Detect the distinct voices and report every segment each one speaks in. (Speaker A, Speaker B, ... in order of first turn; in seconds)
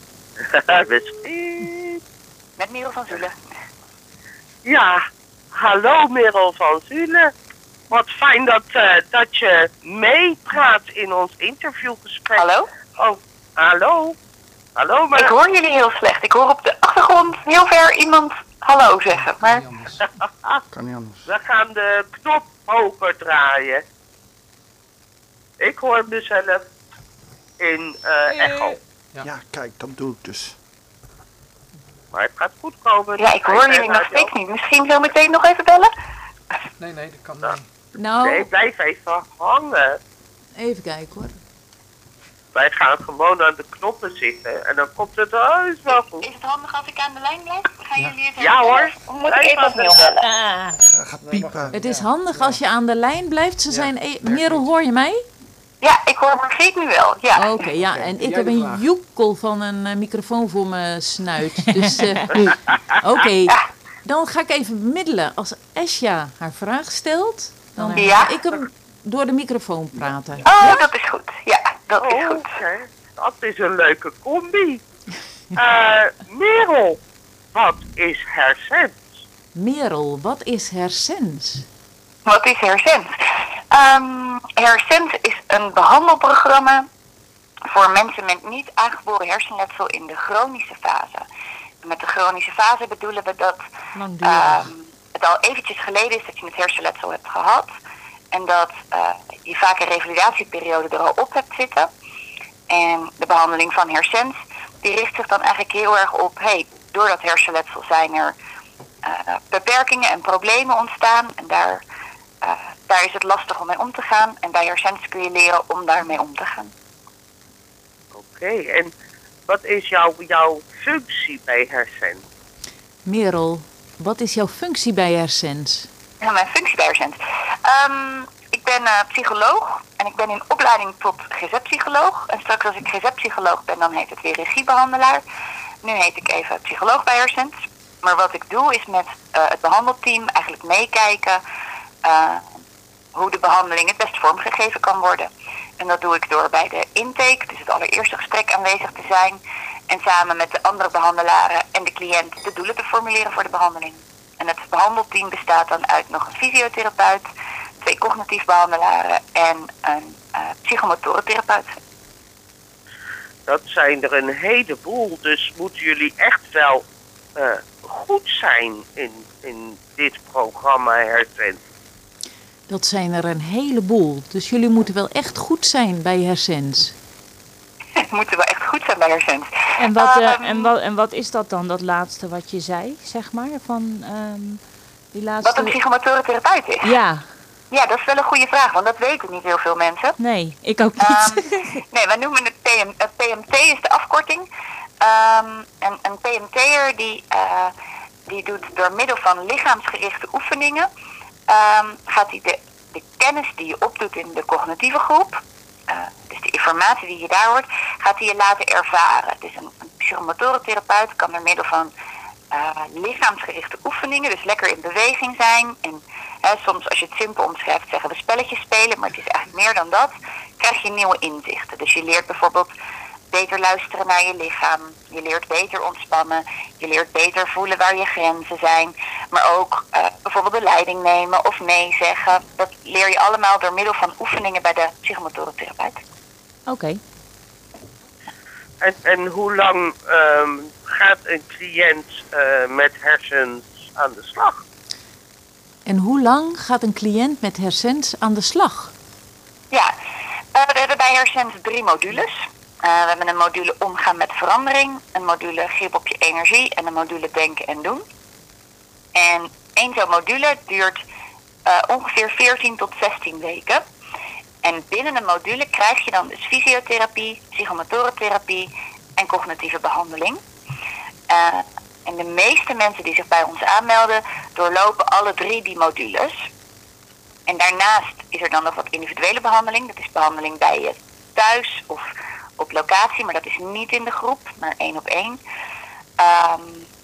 Speaker A: 0.4-2.0, 4.7-7.3, 7.9-12.4, 13.0-14.2, 14.8-15.3, 21.3-23.8, 25.6-26.6, 27.6-28.8, 32.1-34.3, 38.2-40.0, 42.5-46.3, 48.4-50.2, 72.0-74.8, 75.5-77.0, 77.5-79.1, 118.1-118.9, 119.5-122.2, 163.5-166.8, 167.4-171.6, 238.8-244.6
Speaker B: 2.6-3.4, 12.3-12.7, 15.2-19.7, 33.2-35.9, 46.2-50.2, 55.8-57.7, 68.0-68.4, 70.4-72.5, 82.3-83.1, 83.7-86.9, 87.7-91.2, 91.8-93.6, 94.2-97.7, 98.3-101.9, 102.7-108.3, 109.0-111.8, 112.4-116.7, 126.2-135.2, 135.8-141.4, 142.0-142.5, 143.2-157.3, 157.8-161.8, 178.1-180.7, 185.4-186.9, 187.7-190.2, 191.0-194.5, 195.0-197.7, 198.3-200.9, 201.5-211.9, 212.5-222.7, 223.3-236.0, 250.5-258.0, 259.1-261.0, 261.7-263.8, 264.6-270.4, 271.3-276.4, 277.5-282.1, 282.6-285.4, 286.2-286.9
Speaker C: 19.2-20.0, 36.8-37.7, 51.2-52.6, 53.7-54.7, 57.9-58.9
Speaker D: 20.7-21.2, 29.2-30.6, 50.8-51.8
Speaker E: 28.3-28.8, 50.3-50.8, 61.8-62.1, 67.8-68.1, 94.0-94.7, 179.8-185.8, 186.8-187.3, 190.2-191.8, 236.7-237.0
Speaker F: 38.0-38.5, 40.6-41.4, 51.7-55.2, 57.3-70.5, 79.5-81.7, 123.0-125.9, 172.7-176.9, 245.9-248.9